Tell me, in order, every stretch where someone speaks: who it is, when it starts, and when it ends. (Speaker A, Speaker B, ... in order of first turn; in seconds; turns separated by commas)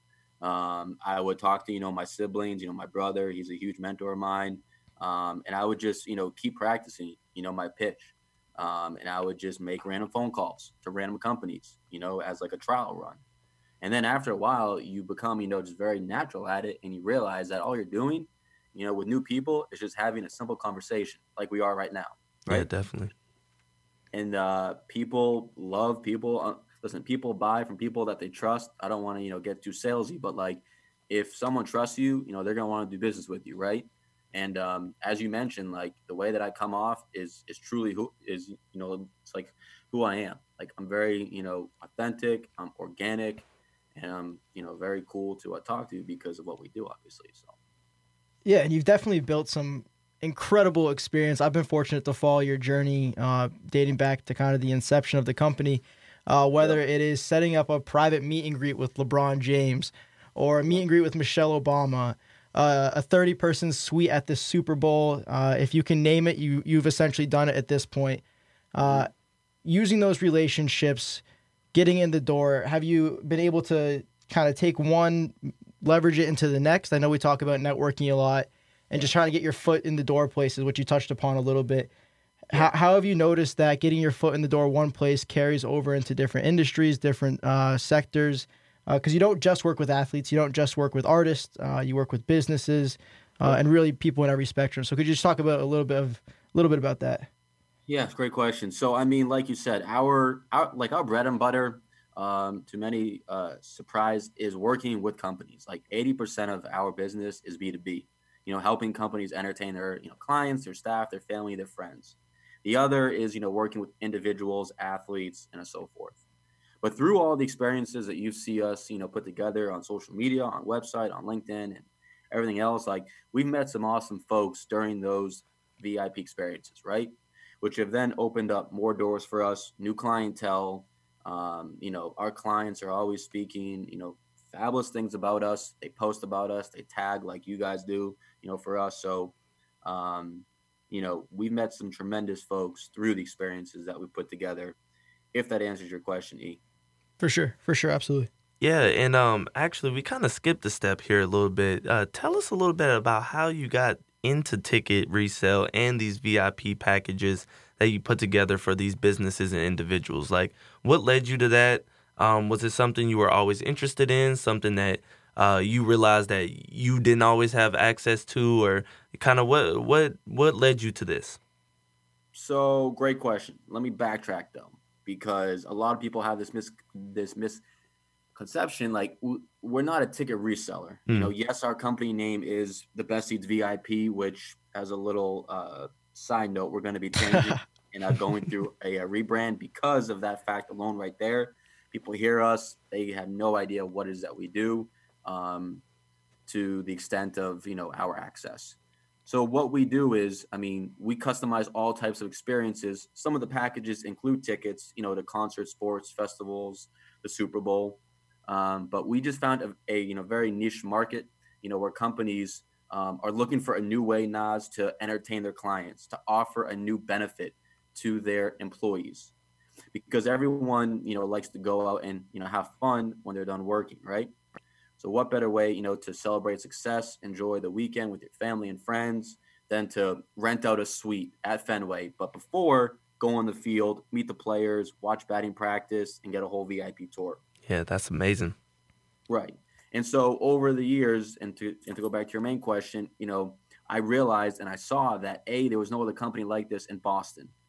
Speaker A: 0.4-13.2, Speaker A: 13.8-22.7, Speaker B: 22.5-23.1, Speaker A: 24.1-47.5, Speaker C: 48.4-68.2, Speaker A: 56.5-56.8, Speaker C: 68.7-69.1, Speaker A: 68.8-69.1, Speaker C: 69.6-71.2, Speaker C: 71.7-81.9, Speaker C: 82.5-97.3, Speaker A: 97.9-116.2, Speaker A: 116.8-144.8, Speaker A: 145.3-146.6, Speaker C: 147.2-148.3, Speaker B: 148.6-171.4, Speaker A: 172.3-177.6, Speaker A: 178.3-195.8, Speaker A: 196.4-219.3, Speaker A: 219.9-224.3, Speaker A: 225.0-237.4, Speaker B: 237.7-238.6, Speaker A: 239.3-247.5